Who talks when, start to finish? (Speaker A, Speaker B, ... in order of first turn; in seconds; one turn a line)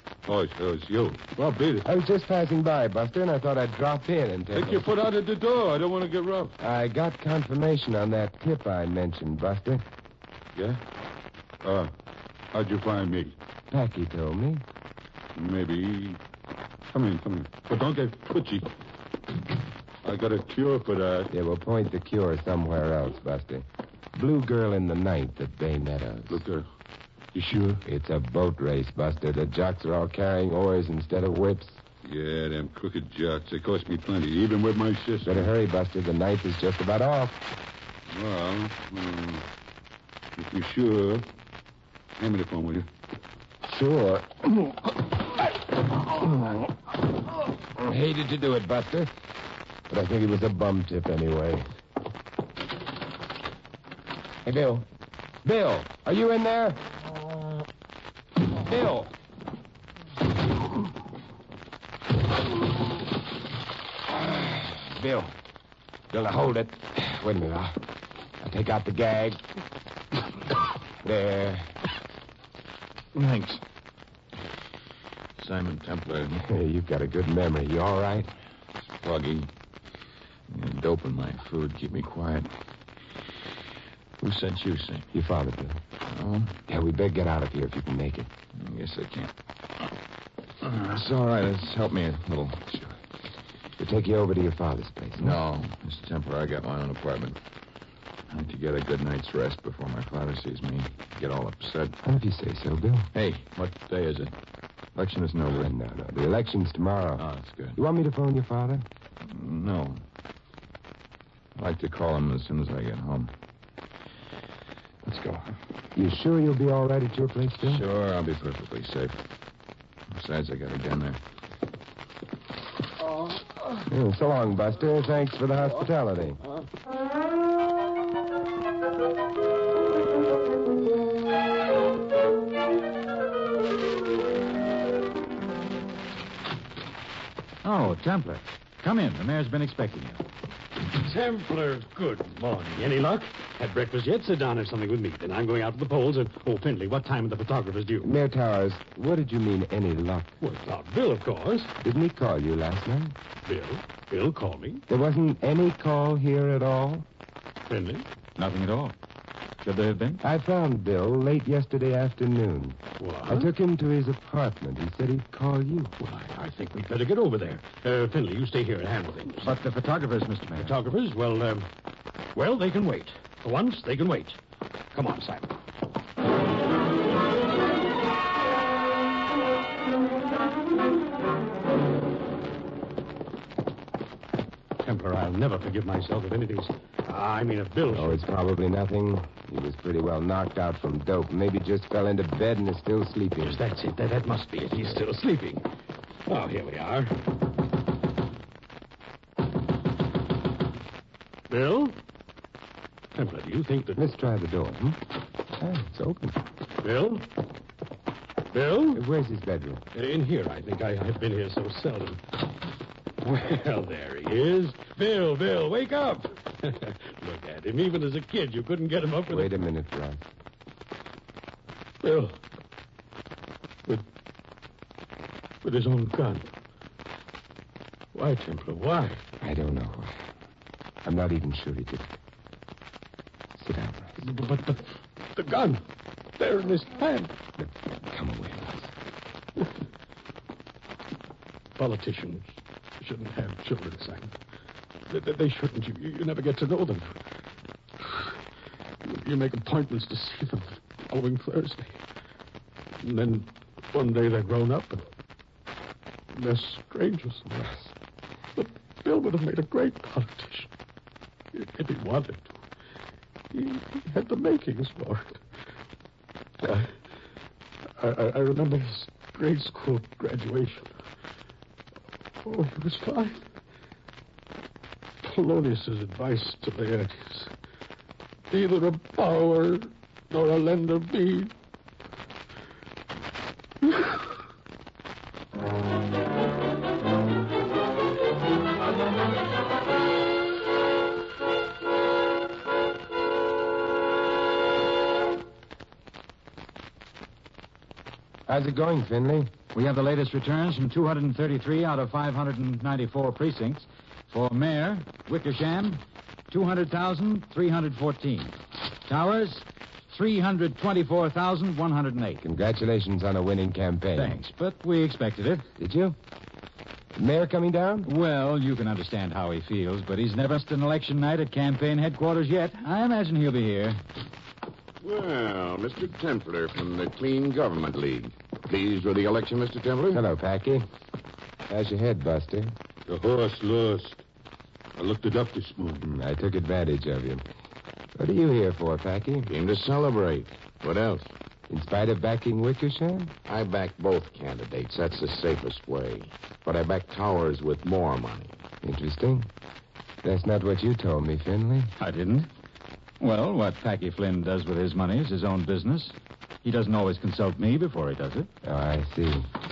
Speaker A: 0.3-1.9
Speaker B: 1.8-4.9
Speaker A: 4.5-6.5
Speaker B: 6.6-9.8
Speaker A: 11.6-11.9
Speaker A: 12.5-13.3
Speaker B: 13.7-14.6
Speaker A: 15.3-16.2
Speaker A: 16.9-18.7
Speaker A: 20.0-21.3
Speaker B: 21.3-26.4
Speaker A: 26.3-26.7
Speaker A: 27.3-27.8
Speaker B: 27.9-31.8
Speaker A: 32.0-35.5
Speaker B: 35.2-37.4
Speaker A: 38.1-39.5
Speaker A: 40.4-41.3
Speaker A: 42.2-42.9
Speaker B: 43.7-45.0
Speaker B: 46.0-46.7
Speaker B: 47.8-49.1
Speaker B: 49.9-51.7
Speaker B: 54.4-54.9
Speaker B: 55.4-56.9
Speaker B: 58.5-59.1
Speaker B: 64.1-65.3
Speaker B: 66.1-67.8
Speaker B: 68.4-69.4
Speaker B: 71.0-71.8
Speaker C: 73.2-73.6
Speaker C: 75.4-76.3
Speaker B: 76.4-78.3
Speaker C: 79.0-79.5
Speaker C: 80.5-82.5
Speaker C: 84.2-85.1
Speaker B: 85.1-85.8
Speaker C: 86.1-86.6
Speaker B: 86.7-88.3
Speaker C: 88.6-89.3
Speaker C: 90.6-92.7
Speaker B: 93.8-95.4
Speaker C: 95.2-97.4
Speaker C: 98.3-102.0
Speaker B: 102.0-103.1
Speaker C: 103.2-104.3
Speaker C: 105.0-105.7
Speaker B: 105.5-108.8
Speaker C: 107.2-107.8
Speaker C: 109.2-110.0
Speaker C: 111.6-113.3
Speaker C: 115.0-115.5
Speaker B: 116.0-117.8
Speaker C: 117.7-119.2
Speaker C: 120.1-121.2
Speaker B: 123.8-126.4
Speaker D: 137.6-140.2
Speaker E: 141.0-148.1
Speaker B: 148.0-150.3
Speaker E: 150.4-151.7
Speaker B: 151.8-153.2
Speaker E: 153.5-154.8
Speaker B: 154.9-157.1
Speaker E: 157.7-158.1
Speaker D: 158.4-158.9
Speaker D: 159.6-160.2
Speaker B: 160.2-165.9
Speaker E: 163.0-163.5
Speaker E: 166.0-169.5
Speaker D: 169.4-170.7
Speaker E: 170.6-171.7
Speaker E: 172.3-174.4
Speaker E: 174.9-175.5
Speaker E: 184.8-188.2
Speaker B: 187.9-193.6
Speaker E: 193.4-195.6
Speaker E: 196.3-197.2
Speaker E: 201.5-202.0
Speaker E: 203.2-204.0
Speaker B: 204.0-205.0
Speaker B: 205.6-206.4
Speaker E: 206.8-207.3
Speaker E: 208.5-209.0
Speaker B: 208.9-209.8
Speaker E: 209.9-212.2
Speaker E: 213.2-219.6
Speaker B: 219.3-220.3
Speaker E: 222.0-222.4
Speaker E: 225.6-226.5
Speaker E: 228.1-229.2
Speaker B: 229.4-230.1
Speaker B: 231.1-232.1
Speaker B: 233.6-234.2
Speaker E: 234.2-234.8
Speaker E: 235.3-235.8
Speaker E: 236.4-237.3
Speaker B: 237.6-238.9
Speaker E: 241.8-242.5
Speaker E: 243.0-244.3
Speaker E: 245.1-247.2
Speaker E: 248.0-248.4
Speaker E: 249.0-252.0
Speaker E: 253.0-255.0
Speaker E: 256.3-257.5
Speaker B: 257.5-257.9
Speaker E: 258.6-260.7
Speaker E: 261.5-262.5
Speaker E: 263.5-265.4
Speaker E: 266.6-266.9
Speaker E: 268.0-270.9
Speaker E: 272.4-273.4
Speaker E: 275.2-277.5
Speaker E: 278.5-281.5
Speaker B: 298.5-299.5
Speaker D: 299.7-312.4
Speaker B: 312.4-314.4
Speaker D: 314.2-315.7
Speaker B: 315.8-316.2
Speaker B: 317.2-318.1
Speaker D: 318.1-324.0
Speaker F: 325.0-330.2
Speaker B: 330.1-330.9
Speaker B: 331.7-332.8
Speaker A: 333.1-334.2
Speaker A: 335.0-336.1
Speaker B: 336.0-337.4
Speaker B: 338.2-339.5
Speaker F: 339.5-341.3
Speaker B: 341.7-343.3
Speaker F: 343.5-348.6
Speaker B: 348.8-349.5
Speaker B: 350.2-351.9
Speaker D: 352.0-352.5
Speaker D: 353.2-358.5
Speaker B: 358.6-359.5